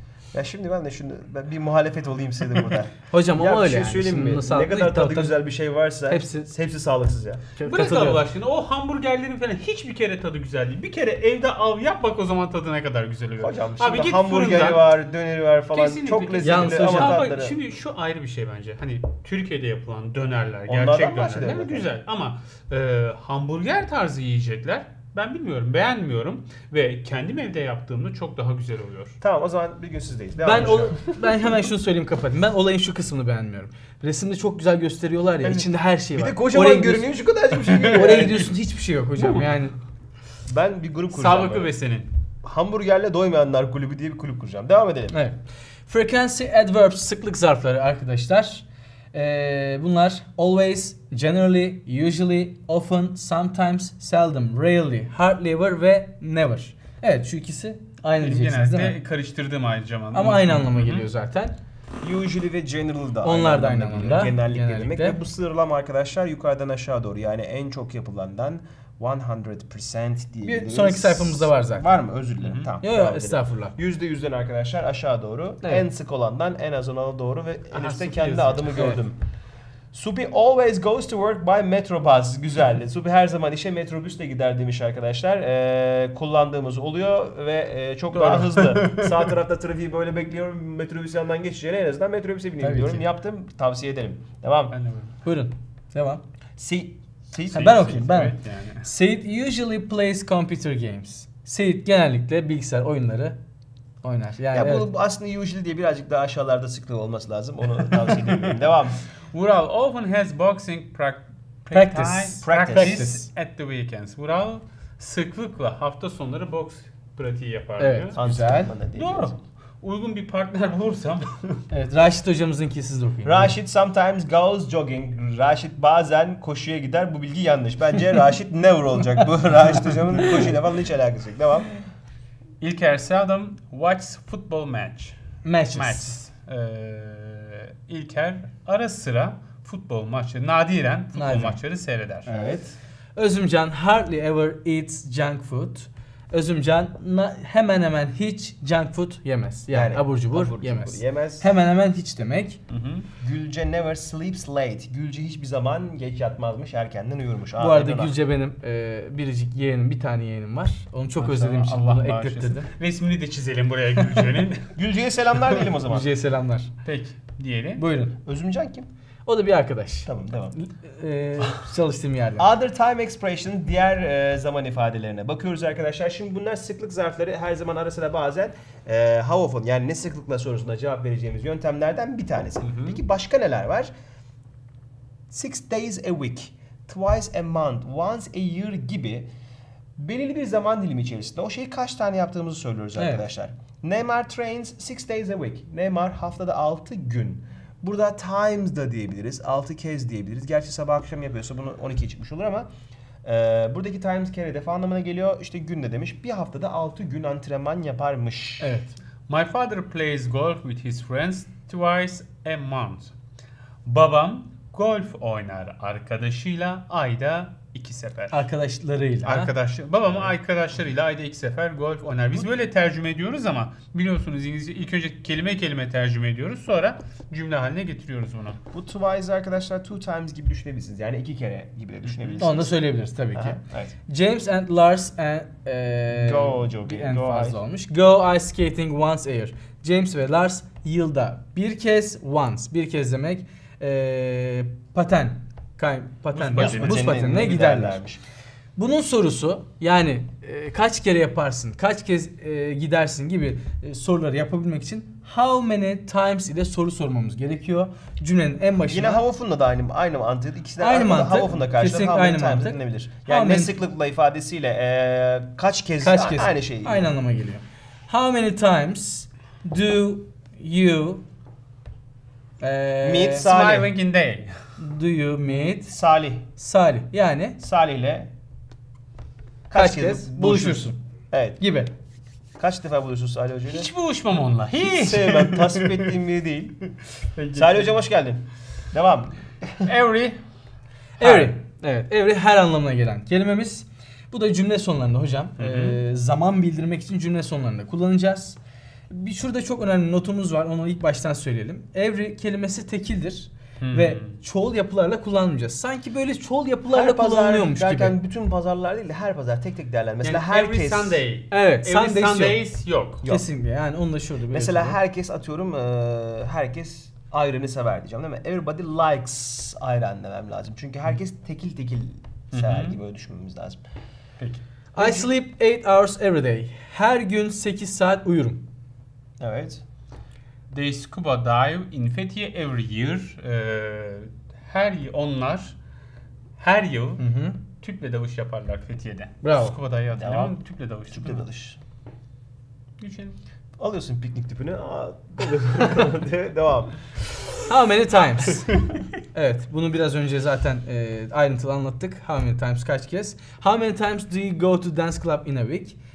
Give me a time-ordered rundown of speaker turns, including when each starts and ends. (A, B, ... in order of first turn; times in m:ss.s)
0:00.3-0:07.4 A
0:03.1-0:05.4 B
0:06.1-0:06.5 B
0:07.6-0:08.2 B
0:07.6-0:14.9 C
0:13.4-0:17.6 A
0:15.7-0:29.2 C
0:16.4-0:17.2 B
0:20.7-0:21.9 A
0:29.2-0:31.2 A
0:30.4-0:37.1 B
0:35.4-0:38.5 A
0:37.9-0:39.7 B
0:40.5-0:41.7 A
0:41.1-0:42.1 C
0:42.4-0:45.1 A
0:45.1-0:59.0 B
0:58.2-1:01.1 C
1:00.1-1:01.6 B
1:02.0-1:19.2 A
1:03.2-1:05.2 B
1:10.4-1:11.9 B
1:12.4-1:12.7 C
1:12.8-1:13.7 B
1:17.7-1:18.9 C
1:19.9-1:34.7 A
1:28.1-1:29.1 C
1:32.6-1:33.0 B
1:34.7-1:35.1 C
1:35.2-1:36.2 B
1:36.6-1:37.8 A
1:37.5-1:43.4 B
1:37.5-1:38.9 C
1:44.0-1:44.9 B
1:44.5-1:49.0 A
1:49.3-1:58.2 C
1:51.7-1:53.3 B
1:52.4-1:53.1 A
1:57.8-1:58.7 B
1:58.2-1:59.3 A
1:58.9-2:01.6 C
2:01.7-2:03.5 B
2:03.2-2:11.7 A
2:12.6-2:15.2 C
2:15.4-2:16.2 B
2:15.7-2:22.3 C
2:21.1-2:21.6 B
2:22.2-2:22.6 B
2:22.3-2:22.8 A
2:23.2-2:32.6 B
2:29.7-2:31.5 A
2:32.7-2:33.1 C
2:33.2-2:38.1 A
2:37.6-2:42.7 B
2:41.2-2:44.7 C
2:44.8-2:46.1 A
2:45.8-2:46.7 B
2:46.8-2:47.8 C
2:47.8-2:48.2 B
2:48.2-2:48.9 A
2:49.2-2:52.5 B
2:50.0-2:50.6 A
2:52.4-3:03.9 A
3:02.6-3:03.0 C
3:05.3-3:09.3 A
3:10.0-3:22.7 A
3:13.0-3:13.2 B
3:23.2-3:28.7 A
3:28.6-3:29.0 B
3:29.3-3:33.1 C
3:33.8-3:38.5 C
3:38.3-3:39.5 B
3:39.2-3:48.6 C
3:40.1-3:40.3 A
3:48.7-3:52.8 A
3:52.0-3:52.4 C
3:52.4-4:08.0 B
3:53.3-3:53.9 A
3:56.1-3:57.6 A
4:06.3-4:07.1 C
4:06.5-4:08.2 A
4:08.8-4:19.2 B
4:18.9-4:27.1 A
4:20.8-4:23.8 B
4:26.0-4:31.2 B
4:32.6-4:33.5 B
4:33.0-4:33.9 A
4:33.4-4:34.6 C
4:34.8-4:35.9 B
4:35.8-4:36.5 A
4:36.6-4:37.6 B
4:37.6-4:38.3 A
4:39.7-4:41.6 A
4:39.7-4:41.0 B
4:41.6-4:41.9 B
4:42.6-4:43.9 A
4:43.7-4:46.1 C
4:44.8-4:46.8 A
4:47.3-4:47.9 C
4:47.5-4:49.9 A
4:49.8-4:50.4 C
4:51.2-4:51.5 C
4:51.2-4:58.6 B
4:55.6-4:56.0 C
4:59.1-5:08.2 B
5:03.8-5:04.3 C
5:06.9-5:11.2 A
5:10.2-5:13.2 C
5:11.5-5:12.6 B
5:13.2-5:15.0 B
5:14.5-5:23.8 A
5:22.5-5:23.0 C
5:24.4-5:24.6 C
5:24.9-5:28.6 B
5:25.0-5:25.3 A
5:29.4-5:29.8 A
5:30.7-5:35.8 C
5:36.6-5:37.2 C
5:37.2-5:37.6 B
5:37.7-5:41.4 C
5:39.4-5:39.8 B
5:40.1-5:41.8 A
5:43.0-5:43.4 C
5:43.8-5:46.9 A
5:47.6-5:48.7 B
5:49.3-5:56.0 B